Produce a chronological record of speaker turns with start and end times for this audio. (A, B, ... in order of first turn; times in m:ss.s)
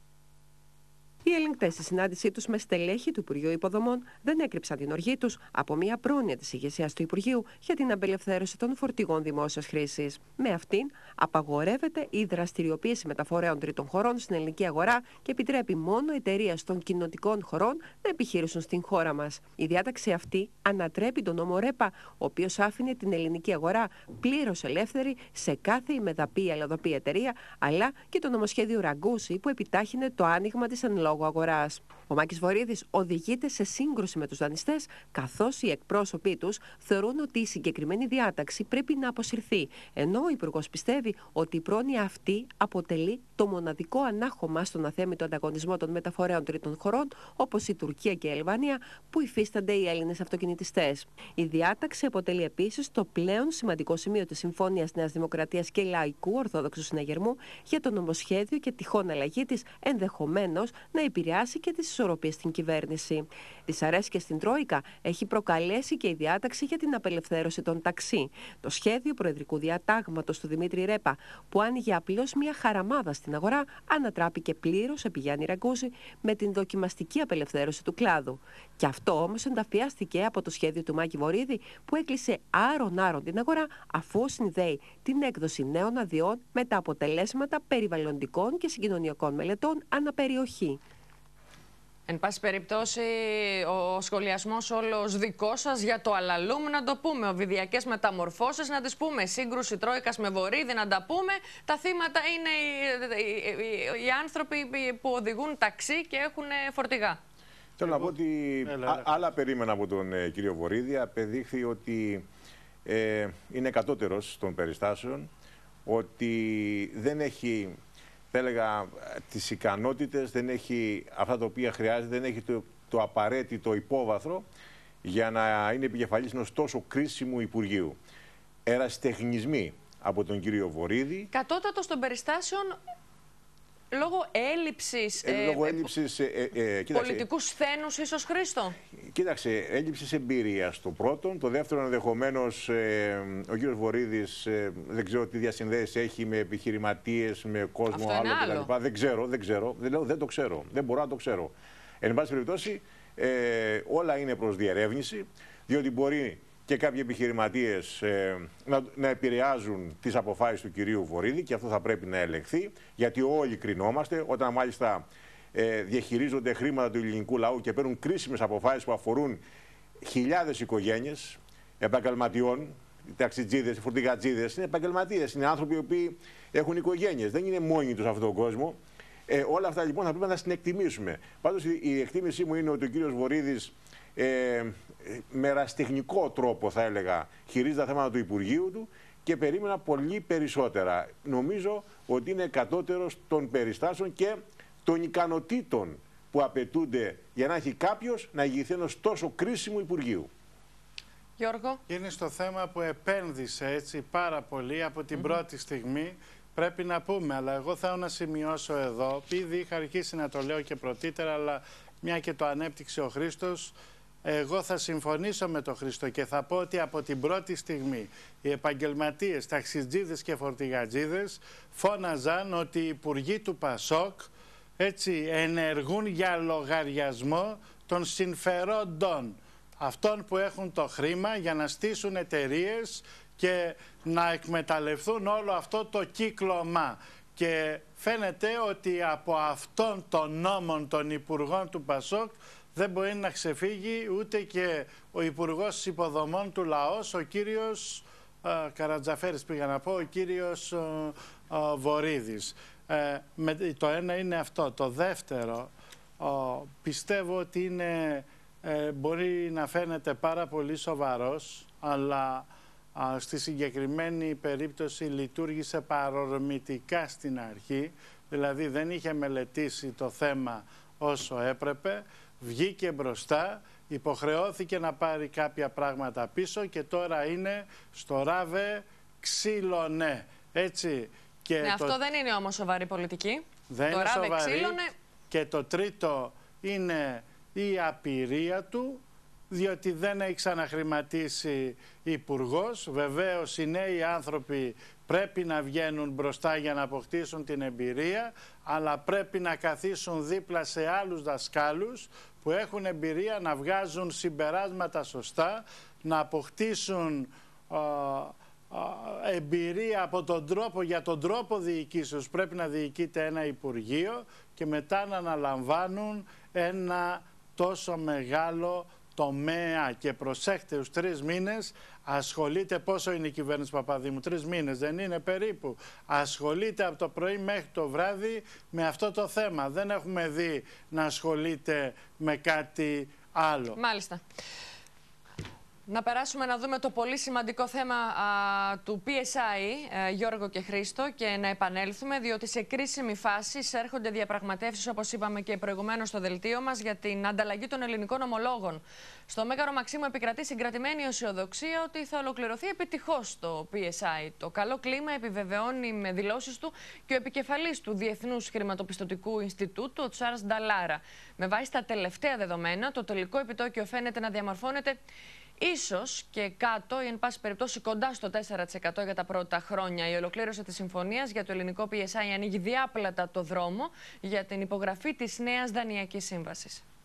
0:01.2-1:30.8 A
1:32.1-1:47.2 B
1:47.8-1:52.2 C
1:47.8-1:48.1 D
1:48.6-1:49.1 D
1:52.8-1:55.3 C
1:55.9-1:57.8 C
1:58.3-2:04.5 C
2:05.0-2:08.0 C
2:08.7-2:11.3 C
2:11.3-2:12.8 B
2:13.9-2:15.9 B
2:15.2-2:17.3 C
2:16.9-2:18.8 B
2:19.0-2:49.4 C
2:27.9-2:28.7 B
2:50.0-3:20.3 C
3:21.4-3:21.8 B
3:21.9-4:42.0 D
4:41.6-4:44.9 B
4:43.7-4:44.8 D
4:45.3-5:33.8 D
5:33.8-5:34.2 B
5:35.9-6:05.0 B
6:05.6-6:16.8 B